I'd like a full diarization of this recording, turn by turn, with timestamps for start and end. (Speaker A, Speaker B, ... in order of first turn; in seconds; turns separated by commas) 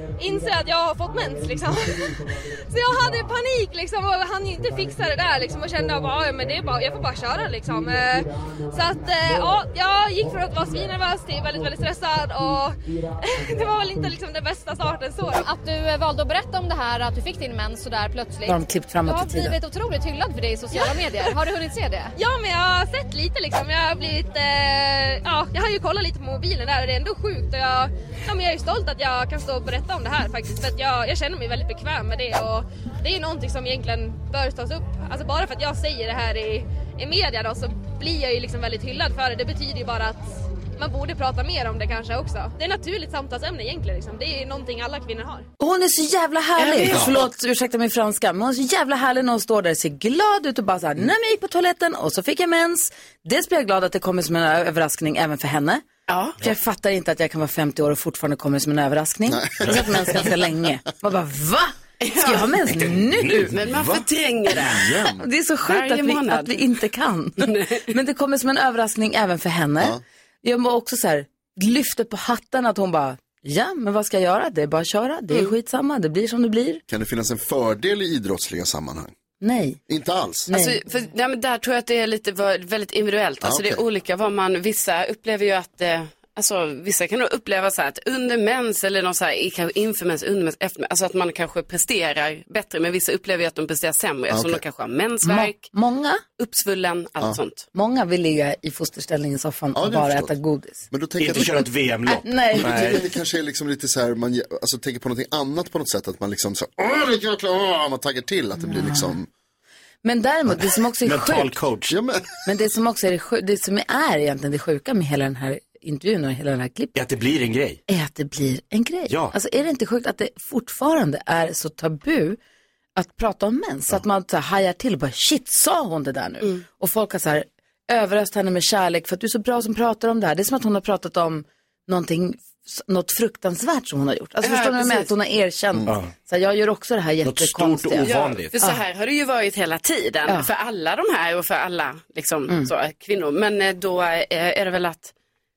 Speaker A: 0.2-15.5, Speaker B: 15.4-22.1, Speaker C: 18.4-19.6, Speaker A: 20.7-21.3, Speaker A: 22.2-45.5, Speaker C: 45.6-55.8, Speaker D: 46.6-47.2, Speaker E: 46.9-47.2, Speaker D: 56.1-56.4, Speaker C: 56.4-63.5, Speaker F: 59.3-60.3, Speaker D: 62.0-62.6, Speaker E: 62.7-63.6, Speaker D: 63.5-64.9, Speaker F: 63.7-65.2, Speaker C: 65.2-76.8, Speaker D: 65.6-66.7, Speaker D: 67.4-67.8, Speaker F: 76.9-79.1, Speaker C: 79.4-79.8, Speaker F: 79.9-80.5, Speaker C: 80.5-80.8, Speaker D: 80.5-95.7, Speaker F: 83.4-83.8, Speaker F: 94.3-94.6, Speaker C: 95.2-96.2, Speaker D: 96.4-97.7, Speaker C: 97.7-101.5, Speaker F: 99.7-100.4, Speaker F: 100.9-101.7, Speaker E: 101.2-103.0, Speaker C: 102.1-103.0, Speaker F: 102.6-109.3, Speaker C: 108.6-109.2, Speaker C: 110.0-111.5, Speaker E: 111.0-112.0, Speaker F: 111.9-112.2, Speaker C: 112.5-117.0, Speaker E: 117.0-117.8, Speaker C: 117.9-122.4, Speaker E: 119.1-119.4, Speaker C: 123.0-138.1, Speaker D: 134.4-135.1, Speaker E: 137.2-138.5, Speaker D: 138.1-145.1